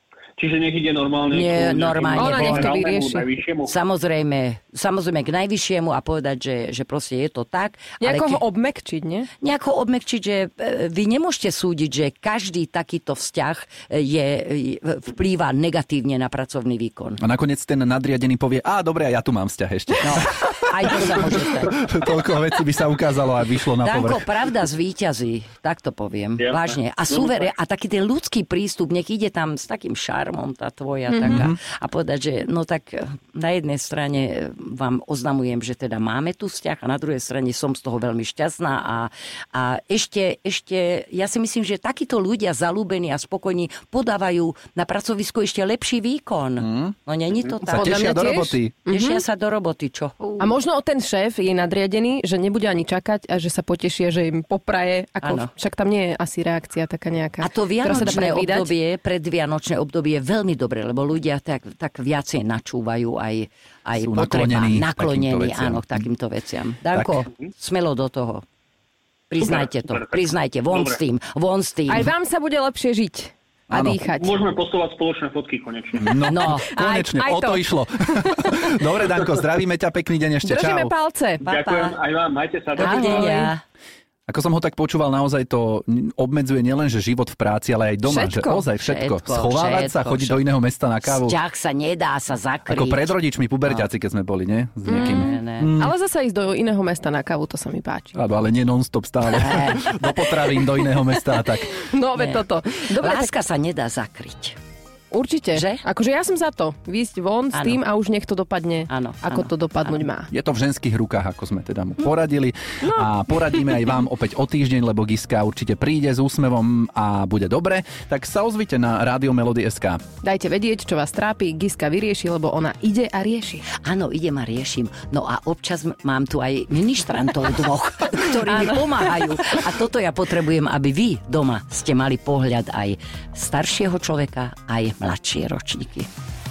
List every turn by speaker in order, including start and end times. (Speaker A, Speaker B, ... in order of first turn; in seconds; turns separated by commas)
Speaker A: 0.4-3.7, Speaker B: 1.3-2.8, Speaker C: 2.2-3.3, Speaker B: 3.7-8.4, Speaker C: 8.0-9.3, Speaker B: 9.4-17.2, Speaker D: 17.2-24.2, Speaker B: 20.0-21.8, Speaker B: 23.8-48.1, Speaker A: 26.4-27.3, Speaker D: 31.2-31.6, Speaker D: 46.6-47.0, Speaker D: 47.7-48.8, Speaker C: 47.7-49.2, Speaker B: 48.9-50.4, Speaker C: 50.4-58.7, Speaker B: 55.2-55.5, Speaker B: 57.4-68.4, Speaker D: 64.0-66.0, Speaker D: 66.9-67.2, Speaker B: 69.3-72.1, Speaker A: 69.4-71.0, Speaker C: 71.9-74.4, Speaker D: 73.7-74.0, Speaker A: 74.2-76.1, Speaker D: 76.0-80.9, Speaker B: 76.3-76.7, Speaker C: 76.5-78.7, Speaker C: 80.4-81.5, Speaker A: 81.4-83.4, Speaker B: 81.5-82.0, Speaker C: 82.8-83.5, Speaker B: 82.8-83.6, Speaker D: 84.3-91.4, Speaker C: 88.0-88.7, Speaker B: 88.8-90.4, Speaker B: 91.0-93.2, Speaker D: 92.7-95.9, Speaker C: 94.9-98.2, Speaker B: 94.9-95.7, Speaker D: 98.2-101.7, Speaker B: 99.3-99.9, Speaker C: 101.7-103.3, Speaker B: 102.2-104.6, Speaker C: 105.1-110.3, Speaker B: 105.5-105.8, Speaker B: 107.5-107.8, Speaker B: 108.9-110.0, Speaker D: 110.3-120.0, Speaker C: 120.2-123.7, Speaker B: 123.7-136.1